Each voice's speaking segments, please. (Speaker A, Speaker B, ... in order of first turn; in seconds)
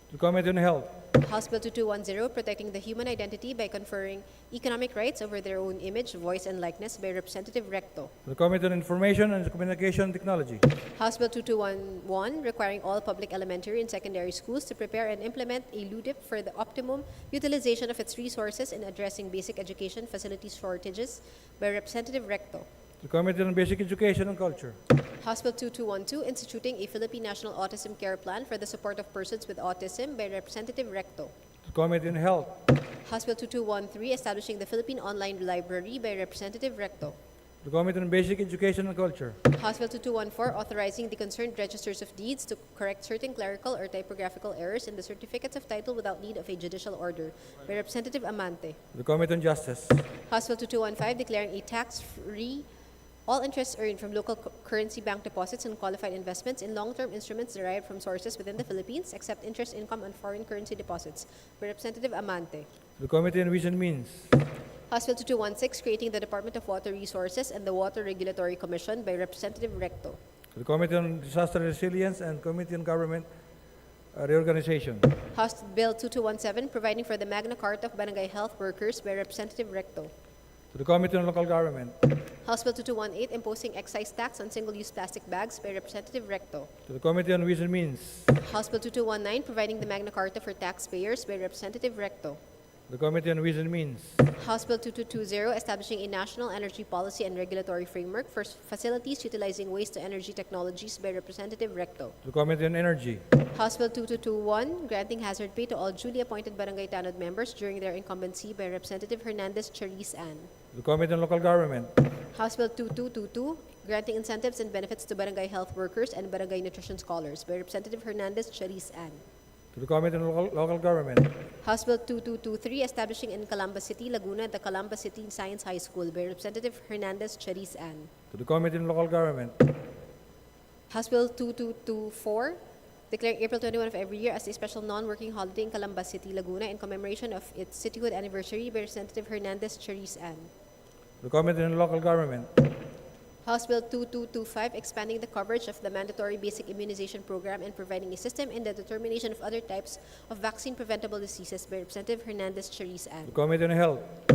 Speaker A: 0.1-0.9, 8.2-10.7, 23.0-24.8, 31.6-32.5, 37.6-39.4, 48.9-50.0, 63.0-64.3, 70.5-73.3, 74.1-75.1, 80.7-81.9, 86.9-88.3, 92.9-94.2, 102.2-103.2, 110.7-111.9, 119.7-121.3, 128.3-129.6, 141.2-142.5, 153.3-154.1
Speaker B: 1.2-8.1, 10.9-22.7, 25.2-31.3, 33.0-37.2, 39.5-48.8, 50.3-52.7, 53.3-62.7, 64.9-70.2, 75.3-80.1, 82.4-86.7, 88.4-92.4, 94.4-102.1, 103.5-110.5, 112.3-119.2, 121.6-128.1, 130.9-140.5, 143.4-153.3